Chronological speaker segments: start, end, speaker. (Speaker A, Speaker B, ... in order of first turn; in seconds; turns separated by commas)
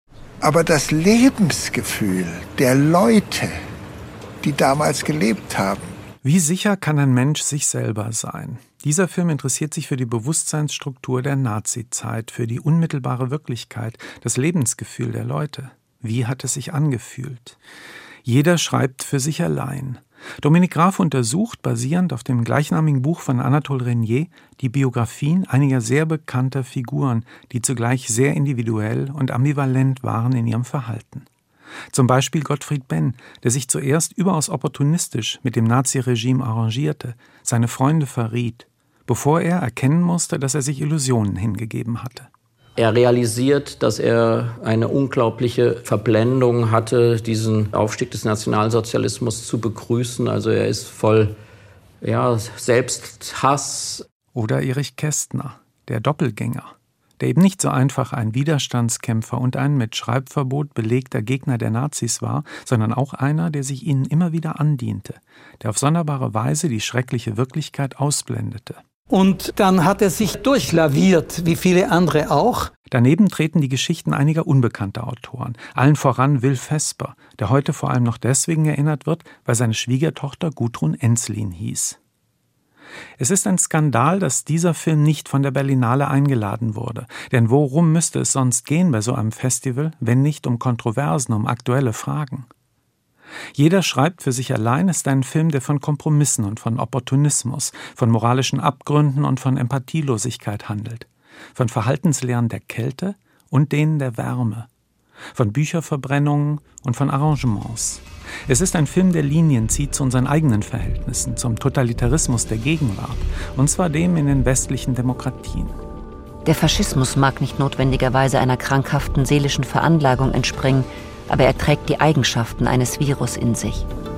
Speaker A: 0.4-3.6, Speaker A: 4.4-5.9, Speaker B: 6.2-17.6, Speaker B: 18.2-31.3, Speaker B: 31.9-42.3, Speaker C: 42.8-51.3, Speaker C: 52.0-54.0, Speaker B: 54.3-68.8, Speaker D: 69.1-72.7, Speaker B: 72.9-82.0, Speaker B: 83.2-92.5, Speaker B: 93.5-104.7, Speaker B: 105.3-115.7, Speaker E: 116.4-123.8